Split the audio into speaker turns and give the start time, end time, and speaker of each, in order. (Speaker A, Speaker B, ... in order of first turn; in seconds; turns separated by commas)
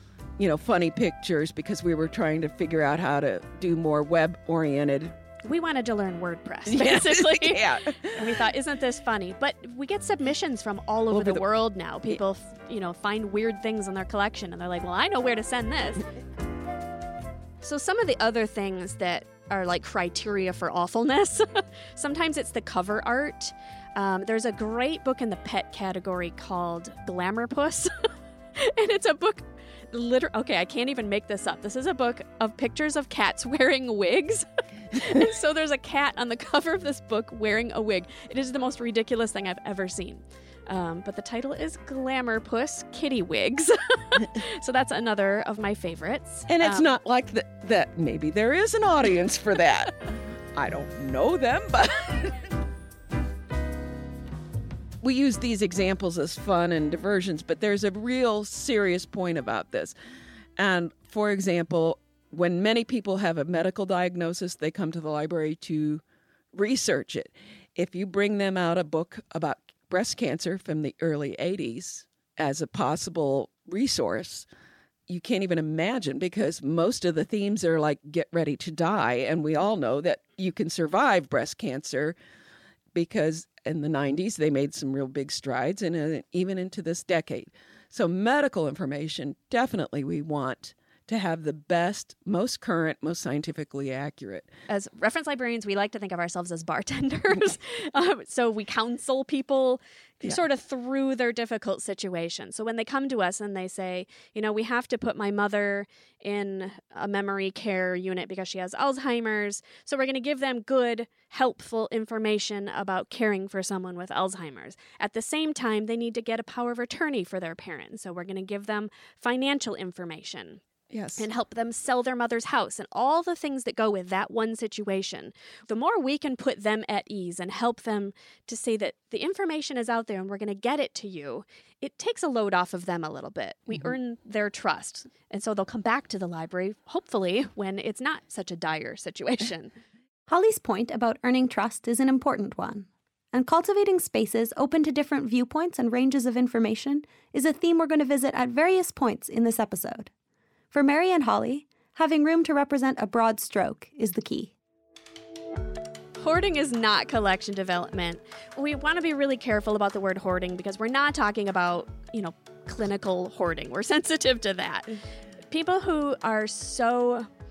Speaker A: 0.4-5.1, Speaker B: 5.4-16.1, Speaker A: 6.7-8.4, Speaker A: 11.1-11.4, Speaker B: 17.6-27.9, Speaker B: 28.6-46.9, Speaker A: 46.5-50.0, Speaker A: 50.5-52.3, Speaker A: 55.0-59.9, Speaker A: 60.6-66.0, Speaker A: 66.5-74.5, Speaker A: 75.1-82.2, Speaker A: 82.9-94.5, Speaker B: 94.7-120.6, Speaker A: 120.9-121.2, Speaker B: 121.2-139.7, Speaker C: 140.3-150.1, Speaker C: 150.7-154.5, Speaker B: 156.2-164.9, Speaker B: 165.5-167.3